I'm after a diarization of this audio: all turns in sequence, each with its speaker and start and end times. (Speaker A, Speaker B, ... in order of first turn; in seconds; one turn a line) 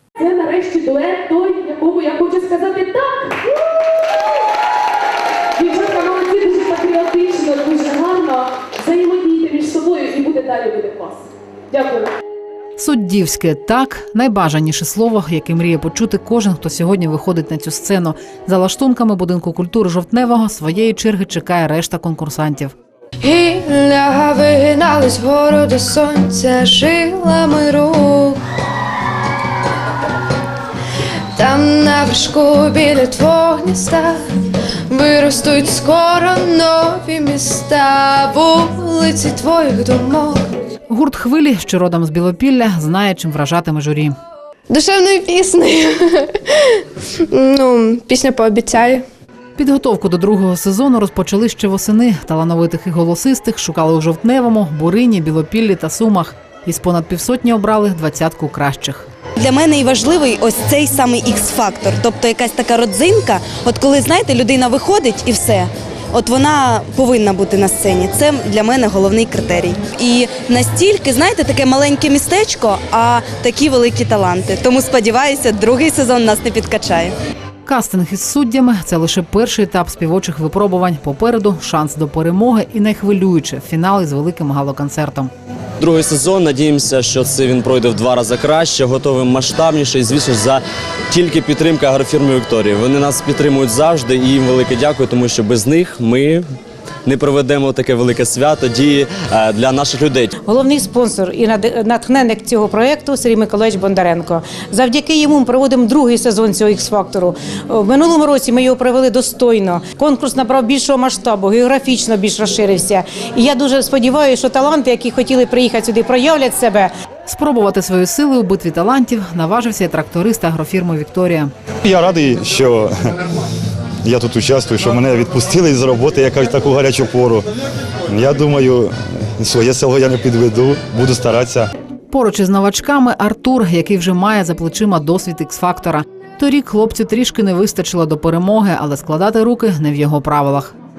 Speaker A: 0.2-3.3
Speaker A: 5.6-12.1
Speaker B: 12.8-22.7
Speaker C: 23.2-28.4
Speaker C: 31.4-34.2
Speaker C: 34.9-40.5
Speaker B: 40.9-44.1
Speaker C: 44.7-46.2
Speaker C: 47.3-49.0
Speaker B: 49.6-59.1
Speaker D: 59.4-77.1
Speaker B: 77.7-85.3
Speaker E: 85.8-96.5
Speaker E: 97.1-100.3
Speaker F: 100.4-116.9
Speaker B: 117.3-121.5
Speaker G: 121.8-123.2
Speaker G: 124.0-127.5
Speaker G: 128.1-131.7
Speaker B: 132.1-140.7